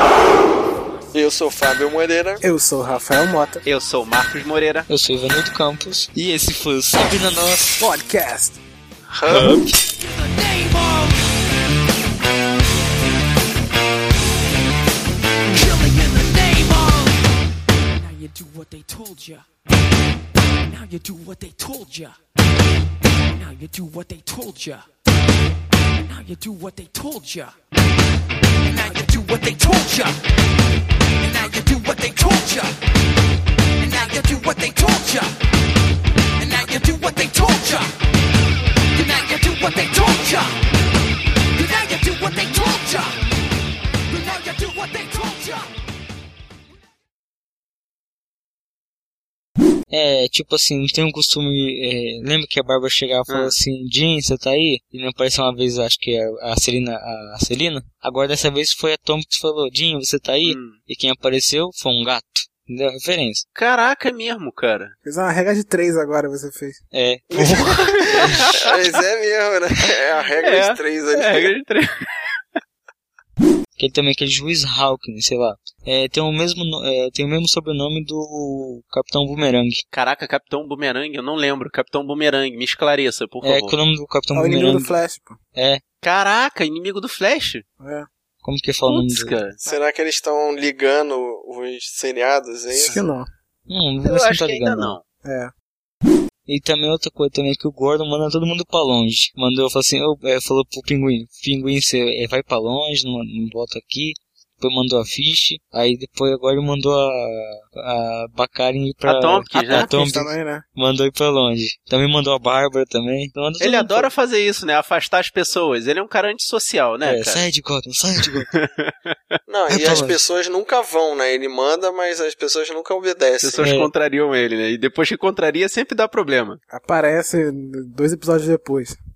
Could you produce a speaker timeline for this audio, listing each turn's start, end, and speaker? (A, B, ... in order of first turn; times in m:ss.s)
0:01.1-0:02.4 A
0:02.4-0:03.6 B
0:03.6-0:04.9 C
0:04.9-0:07.7 D
0:07.8-0:08.6 B
0:09.1-0:09.6 A
0:09.3-0:09.7 D
0:10.0-0:11.2 E
0:15.4-0:17.2 E
0:17.9-0:19.4 E
0:20.6-0:22.2 E
0:23.3-0:24.9 E
0:26.0-0:27.6 E
0:28.6-0:30.2 E
0:31.2-0:32.8 E
0:33.8-0:35.4 E
0:36.4-0:37.9 E
0:38.9-0:40.6 E
0:41.5-0:43.2 E
0:44.1-0:45.7 E
0:49.9-1:03.4 D
0:53.3-0:53.6 C
1:00.4-1:00.8 C
1:03.5-1:04.9 C
1:05.0-1:06.8 B
1:06.9-1:08.5 D
1:07.3-1:11.5 A
1:07.6-1:08.7 C
1:10.4-1:12.1 C
1:13.8-1:19.8 D
1:19.9-1:23.8 C
1:23.4-1:24.9 D
1:24.3-1:25.4 B
1:25.6-1:25.8 D
1:26.0-1:27.6 C
1:27.8-1:28.1 B
1:28.4-1:29.4 D
1:28.8-1:29.6 C
1:29.6-1:33.0 A
1:32.7-1:33.3 B
1:33.7-1:35.0 D
1:34.0-1:35.0 C
1:35.2-1:35.5 B
1:36.5-1:54.1 D
1:49.0-1:49.9 C
1:49.6-1:50.6 B
1:53.6-1:57.5 C
1:57.0-1:58.5 D
1:58.5-1:59.1 C
1:59.5-2:03.6 A
1:59.7-2:00.2 D
1:59.8-2:00.1 B
2:03.4-2:06.6 C
2:03.6-2:03.9 D
2:06.7-2:09.0 B